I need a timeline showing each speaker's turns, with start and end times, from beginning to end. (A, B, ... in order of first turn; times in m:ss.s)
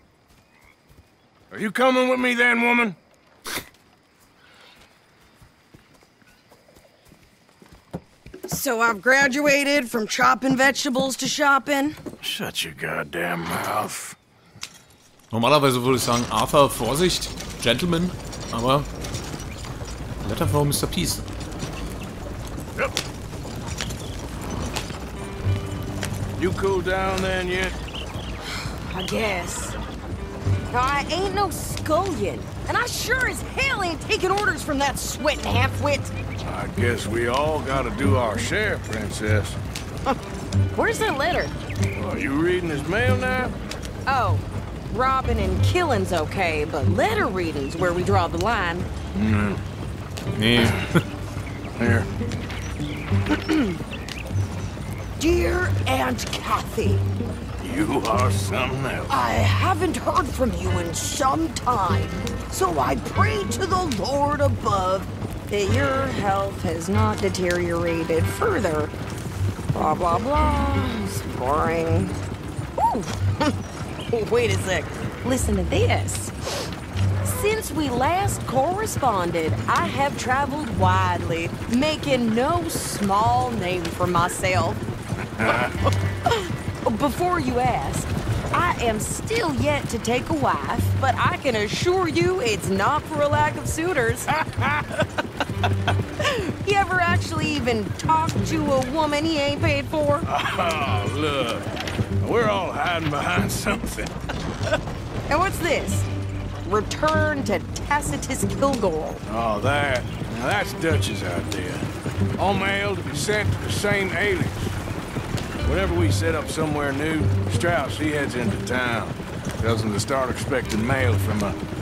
0:01.5-0:03.0 A
0:08.5-0:12.0 B
0:12.2-0:14.2 A
0:15.3-0:18.9 C
0:20.2-0:21.2 C
0:26.4-0:27.8 A
0:28.8-0:29.8 B
0:30.7-0:36.1 B
0:36.4-0:39.6 A
0:40.7-0:41.5 B
0:41.9-0:43.5 A
0:44.1-0:48.9 B
0:49.1-0:49.6 A
0:50.3-0:51.0 C
0:51.8-0:52.1 A
0:55.2-0:57.0 B
0:57.6-0:59.2 A
0:59.1-1:08.9 B
1:09.7-1:12.2 B
1:12.8-1:13.6 B
1:14.1-1:16.3 B
1:17.2-1:24.8 B
1:26.2-1:34.3 B
1:34.3-1:35.0 A
1:36.2-1:40.3 B
1:40.2-1:44.1 A
1:45.3-1:46.0 B
1:46.6-1:49.2 B
1:49.3-1:54.7 A
1:55.6-2:01.6 A